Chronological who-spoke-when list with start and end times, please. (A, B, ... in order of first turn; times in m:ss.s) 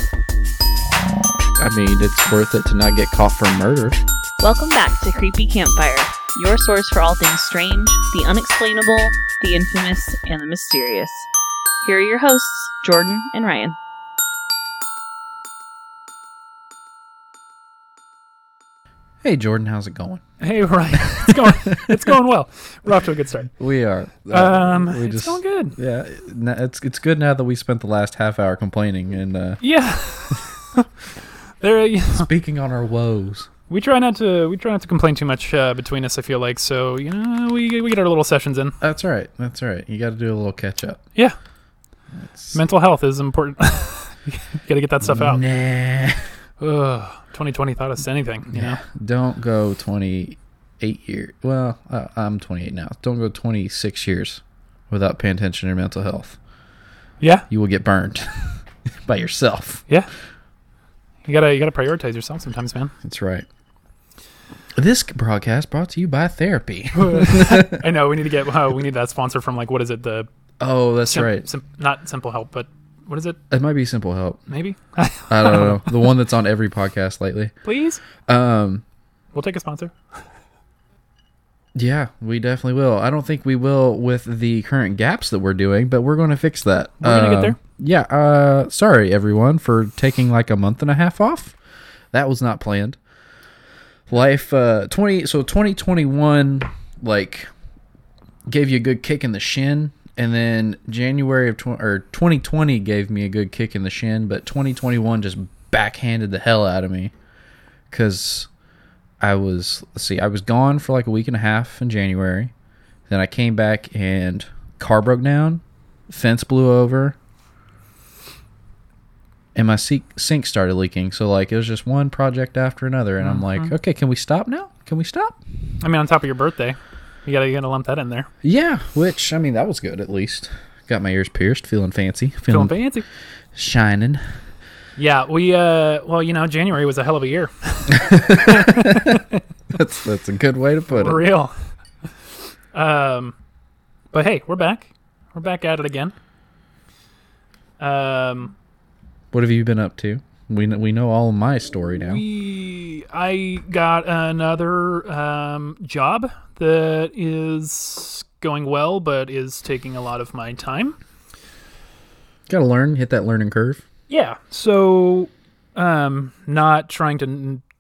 0:01.6-0:04.0 A
0:04.4-0:11.3 B
0:11.8-0:13.8 B
0:19.2-0:20.2 A
0:20.4-0:23.5 C
0:20.9-0:22.0 A
0:23.6-0:29.6 A
0:24.3-0:25.8 C
0:29.6-0:30.9 C
0:31.6-0:32.3 C
0:32.1-0:33.5 A
0:33.7-0:38.8 C
0:38.8-0:41.0 A
0:42.2-0:42.6 A
0:42.5-0:45.4 C
0:45.0-0:46.3 A
0:46.6-0:48.8 C
0:48.5-0:56.4 A
0:57.2-0:57.5 C
0:57.5-0:59.8 A
1:01.2-1:02.9 C
1:03.0-1:03.5 A
1:04.8-1:07.8 A
1:06.9-1:10.3 C
1:10.6-1:11.5 A
1:11.1-1:13.4 C
1:13.5-1:14.4 A
1:14.5-1:16.0 C
1:15.3-1:17.6 A
1:17.6-1:18.0 C
1:18.3-1:18.8 A
1:19.3-1:20.0 C
1:21.8-1:31.6 A
1:27.0-1:27.6 C
1:32.1-1:33.0 A
1:34.1-1:37.5 A
1:38.5-1:47.1 A
1:47.9-1:48.5 A
1:49.2-1:52.5 A
1:53.1-1:57.2 A
1:59.6-2:05.4 A
2:03.2-2:03.7 C
2:05.8-2:08.3 C
2:08.4-2:12.8 A
2:12.5-2:13.0 C
2:13.5-2:14.2 A
2:15.0-2:19.2 C
2:17.9-2:21.2 A
2:20.9-2:21.5 C
2:22.7-2:23.4 C
2:24.1-2:26.1 C
2:27.8-2:28.5 C
2:29.3-2:32.2 A
2:32.1-2:41.0 C
2:42.5-2:43.8 A
2:44.1-2:47.6 C